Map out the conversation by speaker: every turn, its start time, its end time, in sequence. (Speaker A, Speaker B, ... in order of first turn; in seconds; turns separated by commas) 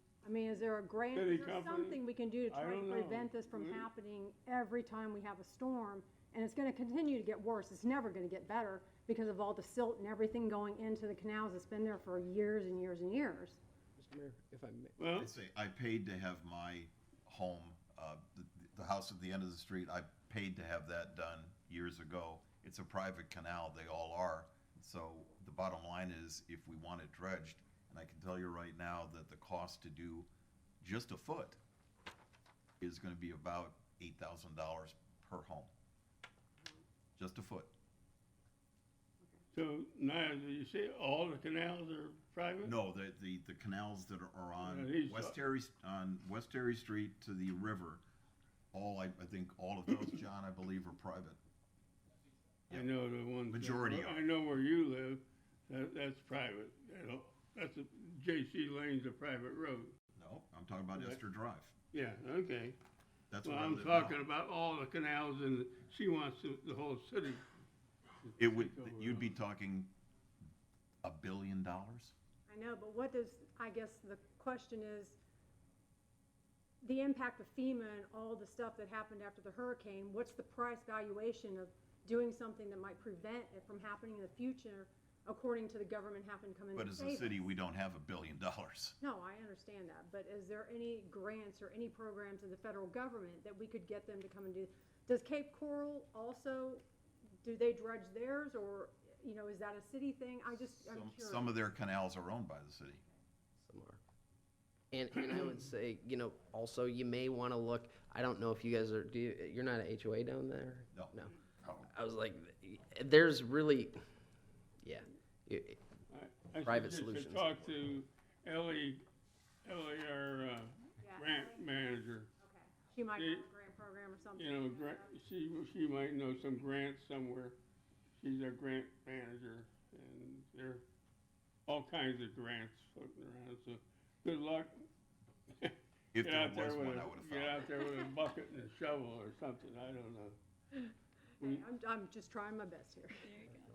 Speaker A: 0.2-13.6, Speaker B: 1.1-3.9, Speaker C: 14.0-14.9, Speaker B: 15.0-15.3, Speaker D: 15.2-30.3, Speaker D: 30.8-31.6, Speaker D: 32.8-35.7, Speaker D: 37.2-37.7, Speaker B: 39.5-42.7, Speaker D: 42.6-48.0, Speaker B: 44.6-45.4, Speaker D: 48.7-51.4, Speaker B: 52.7-59.9, Speaker D: 53.5-54.2, Speaker D: 60.1-61.7, Speaker B: 61.9-62.8, Speaker D: 63.3-64.2, Speaker B: 63.4-67.4, Speaker B: 68.2-69.3, Speaker D: 68.4-69.9, Speaker D: 71.0-72.1, Speaker A: 72.5-75.2, Speaker A: 76.8-87.5, Speaker D: 86.7-89.0, Speaker A: 89.0-96.8, Speaker A: 97.4-101.5, Speaker D: 100.8-103.0, Speaker C: 103.6-104.0, Speaker C: 104.9-111.3, Speaker D: 110.9-111.9, Speaker C: 111.9-114.0, Speaker C: 114.8-115.8, Speaker B: 116.1-119.0, Speaker C: 116.6-117.5, Speaker D: 117.4-117.8, Speaker B: 119.6-122.3, Speaker A: 121.0-121.6, Speaker A: 122.4-125.1, Speaker B: 123.2-123.5, Speaker B: 124.3-127.6, Speaker B: 128.2-130.8, Speaker B: 131.7-134.8, Speaker B: 135.6-140.3, Speaker D: 136.1-137.7, Speaker A: 140.7-143.6